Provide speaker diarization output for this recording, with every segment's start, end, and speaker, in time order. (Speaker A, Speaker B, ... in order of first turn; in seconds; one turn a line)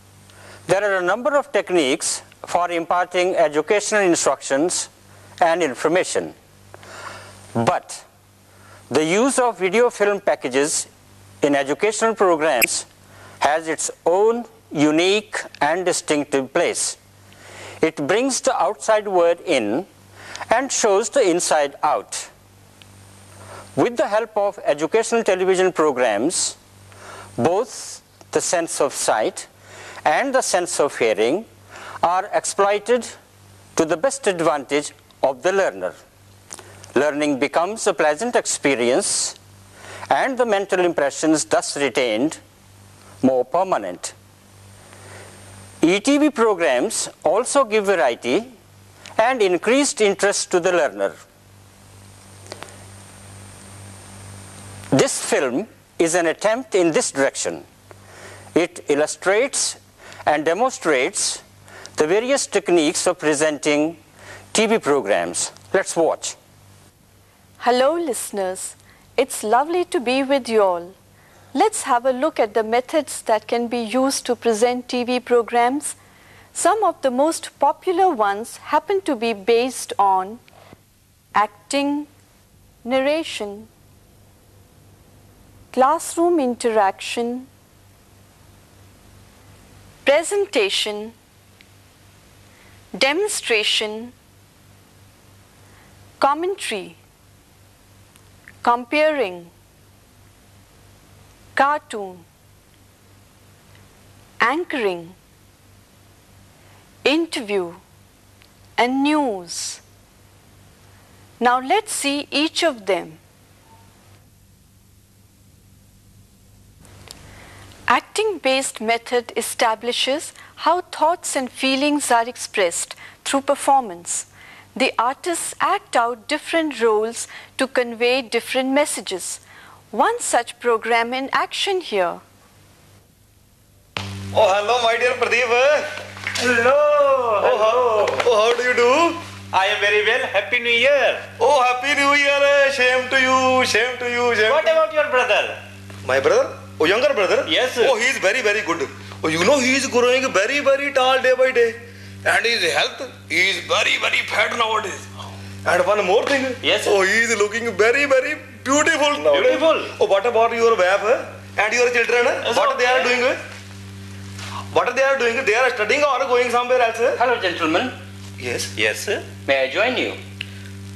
Speaker A: 0.7-4.9
Speaker A: 5.4-6.3
Speaker A: 7.5-8.0
Speaker A: 8.9-10.9
Speaker A: 11.4-12.9
Speaker A: 13.4-17.0
Speaker A: 17.8-19.9
Speaker A: 20.5-22.3
Speaker A: 23.8-26.6
Speaker A: 27.4-29.5
Speaker A: 30.1-31.5
Speaker A: 32.0-33.1
Speaker A: 33.8-36.0
Speaker A: 37.0-39.4
Speaker A: 40.1-42.4
Speaker A: 43.2-44.1
Speaker A: 45.8-48.5
Speaker A: 49.2-51.2
Speaker A: 54.9-57.6
Speaker A: 58.5-61.4
Speaker A: 62.0-64.0
Speaker A: 64.5-66.4
Speaker B: 67.6-71.0
Speaker B: 71.5-76.0
Speaker B: 76.5-80.4
Speaker B: 81.3-82.1
Speaker B: 82.8-83.7
Speaker B: 85.7-87.5
Speaker B: 90.0-91.2
Speaker B: 92.9-94.1
Speaker B: 96.2-97.0
Speaker B: 98.6-99.5
Speaker B: 101.6-102.3
Speaker B: 104.4-105.2
Speaker B: 107.0-107.8
Speaker B: 108.8-109.8
Speaker B: 111.4-113.2
Speaker B: 117.9-132.2
Speaker C: 134.3-135.9
Speaker D: 136.4-138.2
Speaker C: 137.4-139.2
Speaker D: 139.5-141.2
Speaker C: 141.4-144.8
Speaker D: 144.5-145.6
Speaker C: 146.0-155.1
Speaker D: 147.5-147.9
Speaker C: 155.7-163.4
Speaker D: 159.2-159.9
Speaker D: 162.4-163.1
Speaker C: 164.7-167.2
Speaker A: 167.2-168.0
Speaker C: 168.4-168.7
Speaker D: 168.8-169.2
Speaker A: 169.5-170.2